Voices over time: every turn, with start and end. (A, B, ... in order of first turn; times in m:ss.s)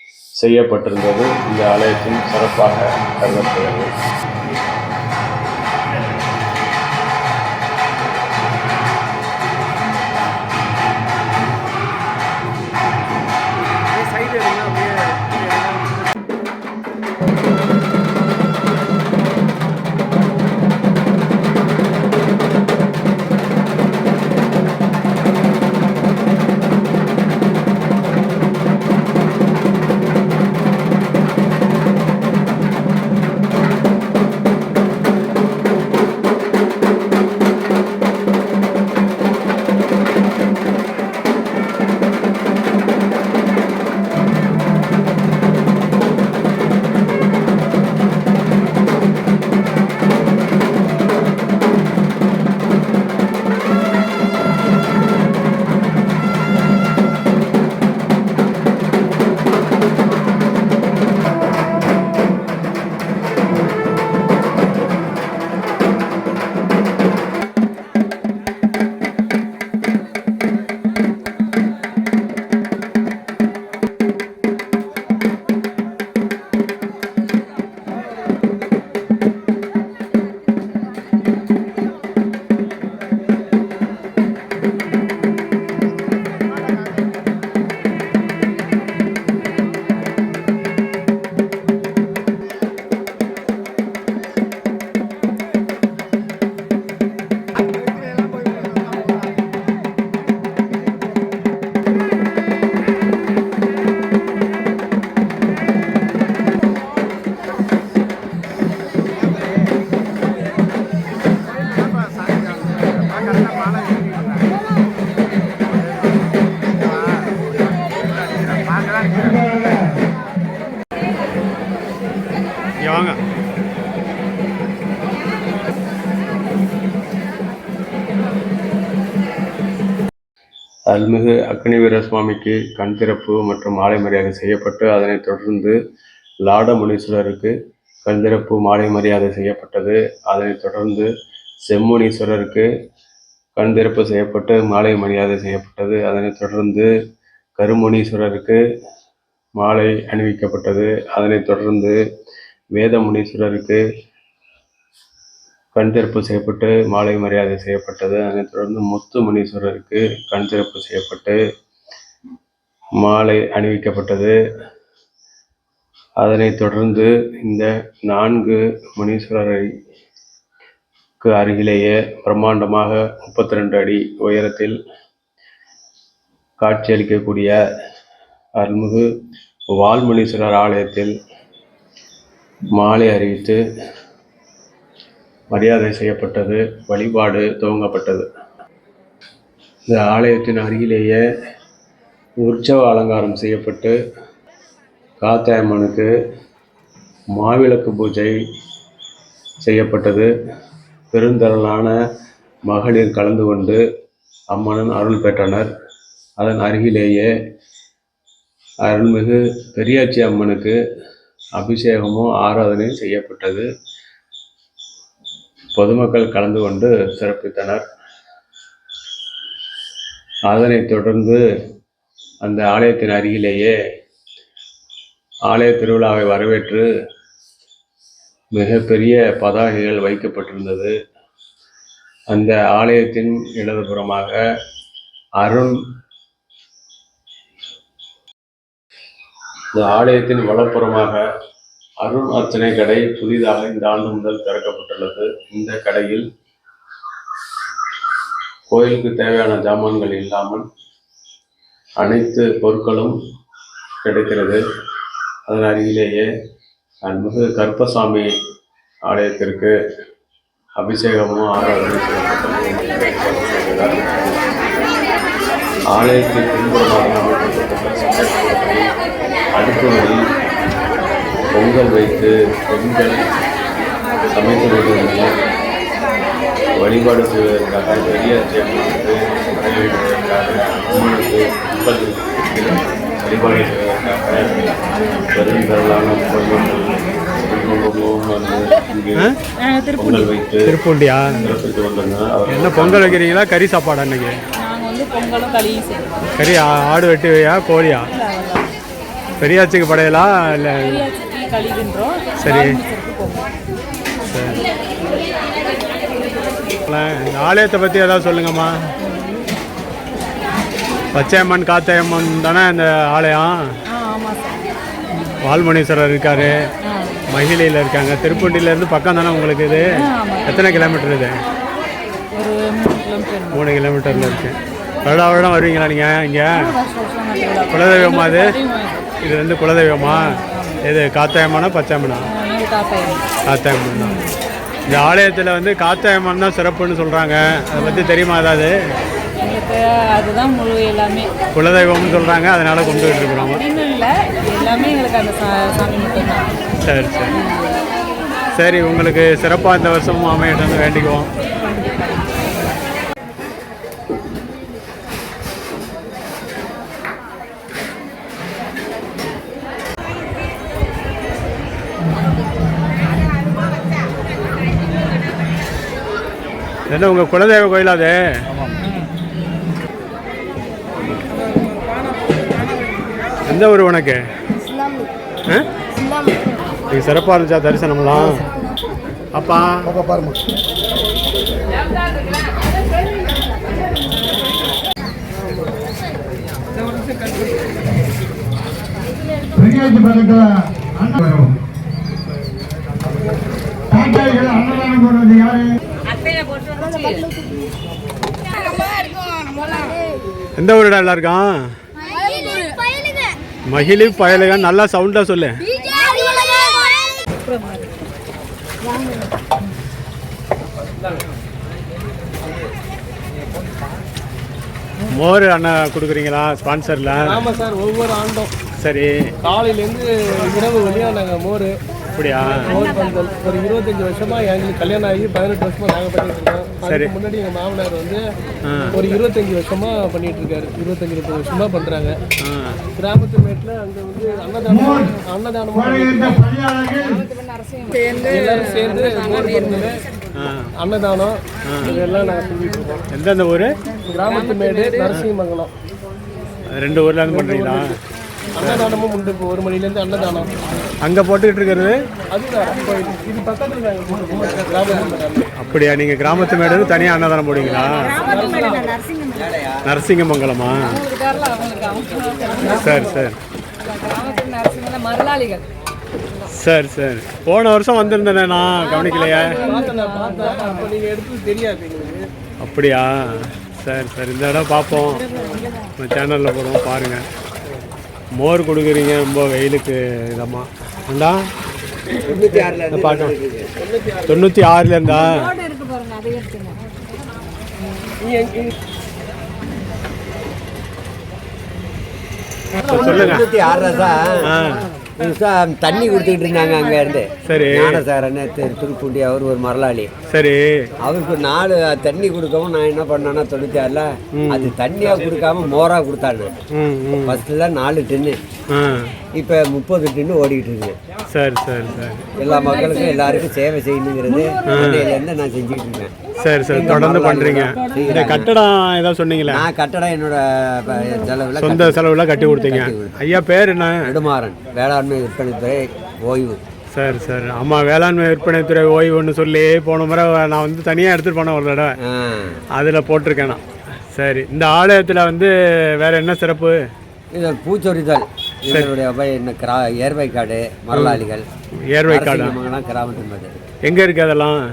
0:00.4-0:03.9 A
2:02.8-2:03.2 B
2:10.9-2:15.8 A
2:16.4-2:17.5 A
2:18.0-2:21.1 A
2:21.7-2:22.7 A
2:23.6-2:26.9 A
2:27.6-2:28.6 A
2:29.6-2:32.0 A
2:32.7-2:33.8 A
2:35.7-2:41.4 A
2:43.0-2:44.4 A
2:46.2-2:49.7 A
2:51.2-2:54.8 A
2:56.6-2:57.6 A
2:58.6-2:59.0 A
2:59.7-3:01.1 A
3:02.7-3:03.6 A
3:05.5-3:08.3 A
3:09.9-3:11.2 A
3:12.4-3:13.9 A
3:15.2-3:16.1 A
3:17.3-3:18.3 A
3:19.6-3:20.3 A
3:21.1-3:21.9 A
3:22.7-3:23.8 A
3:24.5-3:25.7 A
3:26.4-3:27.3 A
3:28.8-3:30.8 A
3:31.6-3:33.6 A
3:35.7-3:37.8 A
3:40.5-3:41.4 A
3:42.4-3:43.7 A
3:45.5-3:46.9 A
3:48.5-3:50.9 A
3:52.3-3:54.4 A
3:55.4-3:55.7 A
3:59.7-4:01.2 A
4:02.0-4:06.2 A
4:08.7-4:10.6 A
4:12.0-4:13.2 A
4:14.0-4:14.6 A
4:15.5-4:16.3 A
4:17.0-4:18.3 A
4:19.1-4:19.7 A
4:20.8-4:24.4 A
4:25.9-4:28.8 A
4:29.5-4:30.2 A
4:31.5-4:33.4 A
4:34.3-4:35.3 A
4:36.8-4:44.6 A
4:45.3-4:49.3 A
4:49.6-4:50.3 C
4:50.0-4:50.8 A
4:50.7-4:51.5 B
4:51.4-4:53.2 A
4:52.5-4:54.3 B
4:54.6-4:56.3 C
4:56.4-4:58.1 B
4:58.1-4:58.7 C
4:59.4-5:01.0 B
5:00.8-5:03.5 C
5:02.4-5:02.8 B
5:04.3-5:04.6 B
5:06.9-5:08.7 B
5:11.1-5:13.5 B
5:13.9-5:14.7 C
5:15.4-5:16.5 B
5:16.9-5:17.2 C
5:17.3-5:21.3 B
5:20.0-5:20.7 C
5:22.3-5:24.5 C
5:23.5-5:26.7 B
5:26.5-5:29.0 C
5:27.7-5:28.6 B
5:29.2-5:32.3 B
5:30.0-5:30.8 C
5:32.3-5:33.2 C
5:33.5-5:34.2 B
5:33.9-5:34.3 C
5:34.9-5:38.7 B
5:37.8-5:38.2 C
5:39.4-5:41.3 C
5:41.6-5:43.6 B
5:43.4-5:46.6 C
5:46.8-5:47.4 B
5:47.3-5:47.8 C
5:48.5-5:51.3 B
6:06.9-6:08.1 B
6:13.5-6:14.2 B
6:16.9-6:18.4 B
6:19.3-6:19.9 B
6:29.7-6:30.4 D
6:31.0-6:31.4 D
6:34.0-6:35.6 D
6:36.6-6:37.2 C
6:40.6-6:41.7 B
6:43.7-6:45.6 B
6:55.1-6:57.4 B
6:57.2-6:58.5 E
6:58.8-6:59.3 B
6:59.4-7:01.7 E
7:02.1-7:02.8 B
7:02.6-7:08.2 E
7:06.9-7:07.1 B
7:08.6-7:09.0 B
7:08.9-7:12.2 E
7:12.4-7:12.8 B
7:12.9-7:16.6 E
7:17.7-7:18.9 C
7:18.2-7:20.0 E
7:19.6-7:19.9 C
7:20.3-7:20.7 B
7:20.8-7:23.0 E
7:21.7-7:22.0 B
7:23.1-7:23.8 B
7:24.1-7:25.7 E
7:26.7-7:28.0 B
7:27.3-7:27.8 E
7:28.6-7:30.5 E
7:28.6-7:28.9 B
7:31.0-7:32.0 B
7:32.3-7:35.5 E
7:34.3-7:35.2 F
7:35.6-7:38.3 B
7:38.1-7:39.1 C
7:38.2-7:39.0 E
7:39.3-7:40.0 F
7:39.8-7:41.0 B
7:40.7-7:42.8 C
7:42.6-7:43.1 E
7:42.7-7:43.4 B
7:43.8-7:45.6 C
7:46.5-7:49.7 B
7:48.9-7:50.9 C
7:49.2-7:52.3 E
7:52.6-7:55.2 B
7:56.0-7:57.2 B
7:58.4-8:01.5 B
8:02.1-8:03.7 F
8:02.9-8:03.3 B
8:03.8-8:04.4 E
8:04.3-8:05.6 B
8:08.2-8:08.7 E
8:12.8-8:14.5 F
8:12.9-8:13.5 B
8:14.4-8:14.9 B
8:15.2-8:20.1 F
8:17.4-8:18.0 B
8:20.3-8:20.9 B
8:21.0-8:26.6 F
8:24.4-8:24.7 B
8:26.7-8:27.4 B
8:27.2-8:28.4 F
8:28.7-8:29.1 B
8:29.3-8:31.0 F
8:31.3-8:32.3 B
8:32.4-8:36.2 F
8:32.4-8:33.5 C
8:34.4-8:35.2 C
8:34.6-8:35.1 B
8:36.4-8:39.6 B
8:36.7-8:38.5 F
8:39.4-8:43.2 F
8:41.6-8:44.1 B
8:44.0-8:46.6 F
8:46.9-8:52.0 B
8:52.0-8:52.6 F
8:52.7-8:53.6 B
8:54.1-8:56.8 B
8:57.3-9:01.5 F
8:58.7-8:58.9 B
9:00.9-9:01.2 B
9:01.9-9:02.6 B
9:02.1-9:03.6 F
9:03.8-9:04.6 B